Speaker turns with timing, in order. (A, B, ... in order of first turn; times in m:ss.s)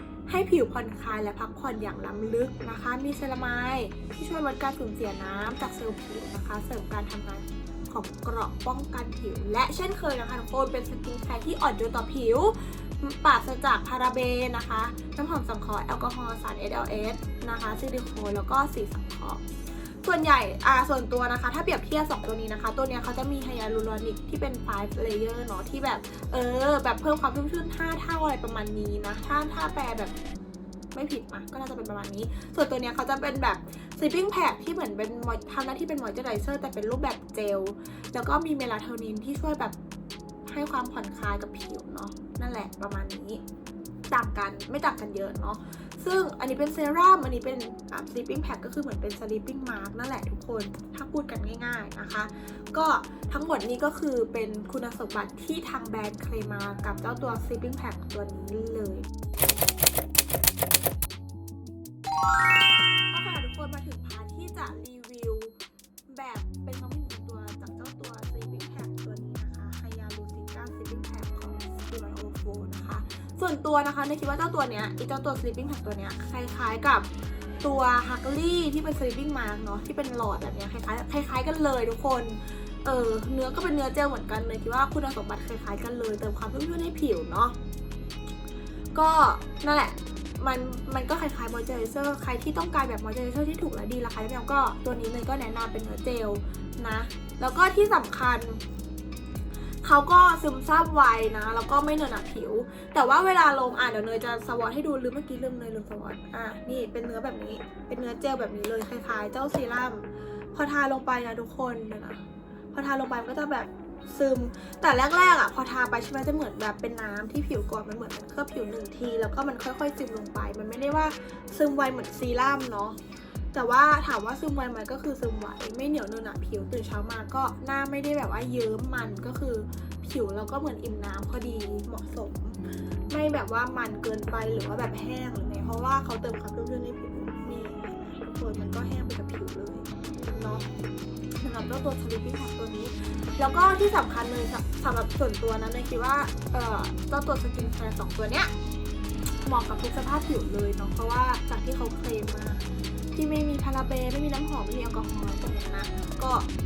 0:00.3-0:19.4 A
0:20.0-0:30.1 A
0:30.9-0:39.8 A
0:40.5-0:43.4 A
0:44.1-0:59.1 A
1:03.1-1:05.5 A
1:06.1-1:17.1 A
1:17.6-1:27.6 A
1:28.9-1:38.6 A
1:39.8-2:03.0 A
2:03.5-2:12.6 A
2:13.1-2:20.6 A
2:21.4-2:28.5 A
2:29.4-2:36.5 A